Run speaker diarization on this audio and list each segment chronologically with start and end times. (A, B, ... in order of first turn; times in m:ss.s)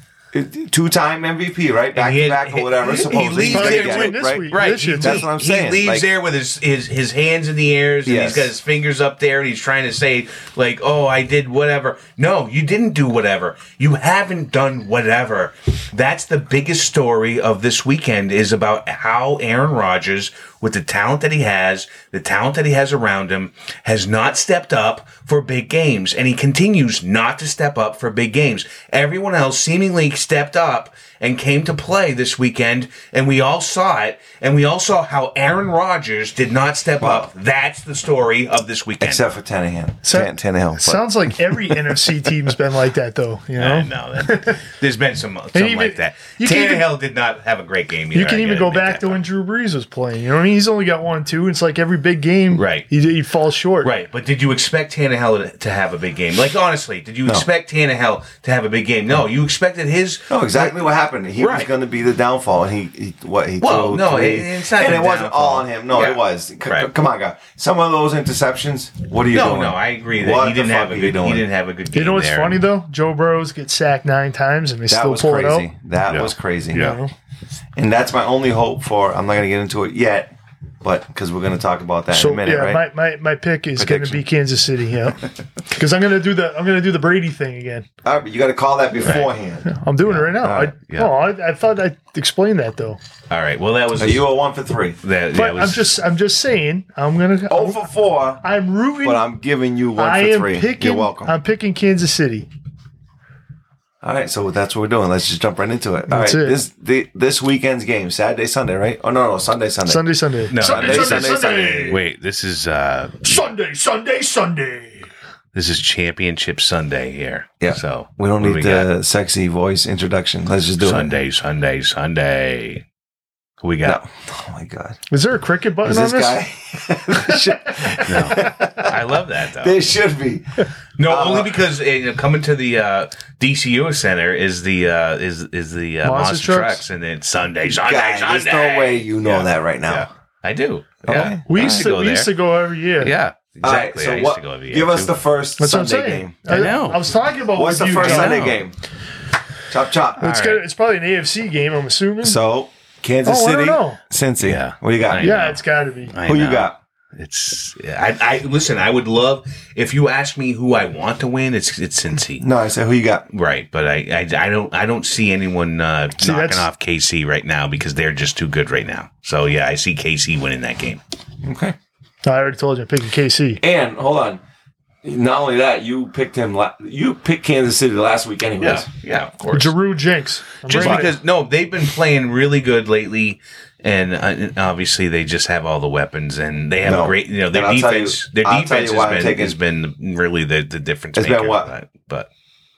0:00.3-0:06.0 A
0:01.9-0:39.3 B
0:03.5-0:05.2 C
0:08.0-0:08.5 A
0:37.0-0:37.3 A
0:39.0-0:42.0 A
0:40.0-0:44.6 C
0:43.6-0:49.2 B
0:45.5-0:46.9 C
0:48.1-0:53.9 C
0:52.5-0:52.9 B
0:53.8-1:00.8 B
1:00.3-1:11.4 A
1:01.4-1:01.7 B
1:03.6-1:06.9 B
1:09.3-1:12.6 B
1:11.9-1:15.7 C
1:14.9-1:17.0 A
1:16.1-1:17.0 B
1:16.7-1:17.1 C
1:17.8-1:22.8 A
1:22.1-1:27.9 C
1:23.8-1:24.2 A
1:28.0-1:30.7 A
1:29.0-1:29.3 B
1:29.6-1:33.0 C
1:30.9-1:31.2 B
1:33.3-1:34.3 B
1:34.0-1:35.0 A
1:35.0-1:35.9 B
1:35.3-1:37.8 C
1:37.5-1:38.4 A
1:38.4-1:39.2 C
1:39.0-1:41.3 A
1:40.0-1:42.5 C
1:44.0-1:50.1 A
1:46.1-1:46.6 C
1:49.8-1:52.0 C
1:50.5-1:51.3 B
1:50.6-1:52.0 A
1:51.9-1:53.4 B
1:53.2-1:55.1 C
1:55.5-1:58.9 B
1:57.6-2:01.1 A
2:00.8-2:02.8 B
2:03.6-2:04.0 B
2:03.8-2:05.0 A
2:05.1-2:06.4 C
2:05.8-2:11.6 A
2:08.0-2:09.8 B
2:11.0-2:22.3 B
2:16.0-2:16.8 C
2:17.8-2:20.1 A
2:21.0-2:21.9 A
2:21.5-2:23.1 C
2:23.0-2:25.1 B
2:23.6-2:26.4 A
2:25.6-2:28.4 C
2:26.5-2:27.0 B
2:27.5-2:28.8 A
2:27.9-2:28.6 B
2:29.7-2:30.3 A
2:30.2-2:32.4 C
2:30.2-2:30.6 B
2:32.2-2:35.3 A
2:33.2-2:34.0 C
2:34.4-2:42.4 B
2:35.2-2:36.1 C
2:36.2-2:36.8 A
2:42.4-2:43.2 A
2:43.3-2:51.0 B
2:46.2-2:46.6 C
2:51.4-2:51.8 A
2:52.2-2:53.6 C
2:53.6-2:54.4 A
2:55.0-2:58.9 A
2:58.6-2:59.8 B
2:59.5-3:01.1 C
3:00.6-3:12.3 B
3:00.7-3:01.1 A
3:06.8-3:09.6 A
3:11.2-3:11.7 A